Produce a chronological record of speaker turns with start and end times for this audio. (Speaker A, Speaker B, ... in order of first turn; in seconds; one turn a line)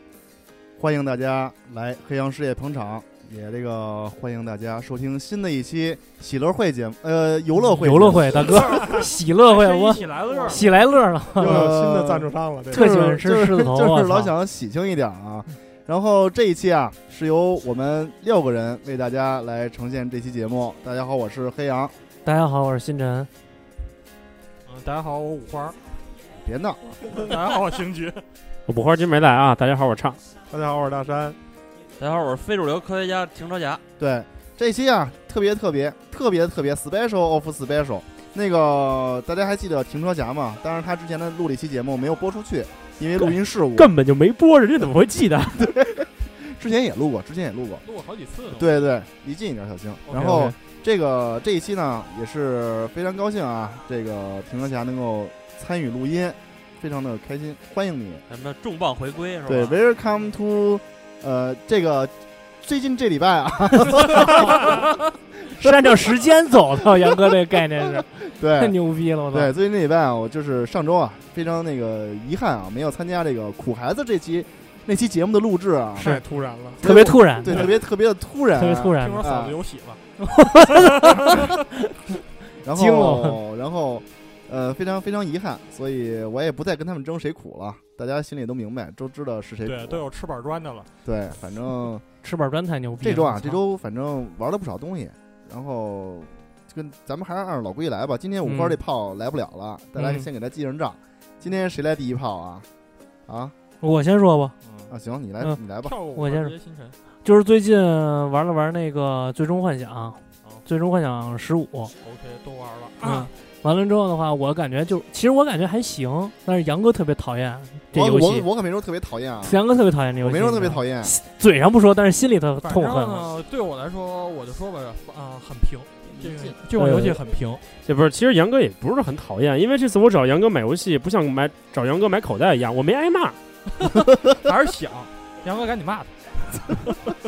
Speaker A: 0.8-8.6
Speaker B: 7.8-11.7
Speaker C: 8.7-10.6
Speaker D: 11.4-12.9
Speaker A: 11.4-21.9
Speaker B: 12.7-14.3
Speaker B: 22.2-23.3
Speaker C: 24.6-25.8
Speaker A: 26.4-26.9
Speaker C: 27.1-28.2
Speaker E: 28.7-30.2
Speaker D: 30.5-31.4
Speaker F: 32.0-33.8
Speaker A: 34.0-43.9
Speaker E: 43.2-45.7
Speaker A: 45.5-47.8
Speaker C: 47.8-48.9
Speaker A: 48.5-58.2
Speaker C: 50.1-50.5
Speaker B: 50.1-50.5
Speaker F: 58.3-59.8
Speaker A: 59.5-64.8
Speaker B: 64.4-64.7
Speaker A: 65.5-66.2
Speaker B: 65.5-69.5
Speaker A: 68.0-68.8
Speaker A: 69.3-76.1
Speaker B: 76.0-76.2
Speaker D: 76.0-76.8
Speaker A: 76.8-79.6
Speaker B: 76.8-77.7
Speaker B: 78.5-79.2
Speaker C: 79.0-80.0
Speaker B: 80.2-81.6
Speaker C: 80.6-81.5
Speaker A: 82.6-90.0
Speaker B: 82.7-83.4
Speaker C: 89.6-90.9
Speaker A: 91.0-92.0
Speaker B: 92.2-93.6
Speaker A: 93.0-102.7
Speaker B: 98.4-98.8
Speaker B: 100.0-100.3
Speaker A: 103.3-103.5
Speaker B: 103.8-104.5
Speaker C: 104.6-104.9
Speaker A: 104.9-105.9
Speaker C: 105.8-107.0
Speaker B: 106.1-106.5
Speaker B: 107.2-111.9
Speaker C: 112.0-113.3
Speaker B: 113.0-118.5
Speaker A: 117.9-119.6
Speaker B: 119.4-123.3
Speaker A: 120.2-121.1
Speaker C: 122.6-127.6
Speaker A: 126.2-126.5
Speaker B: 126.8-127.2
Speaker E: 127.8-133.4
Speaker C: 133.8-137.0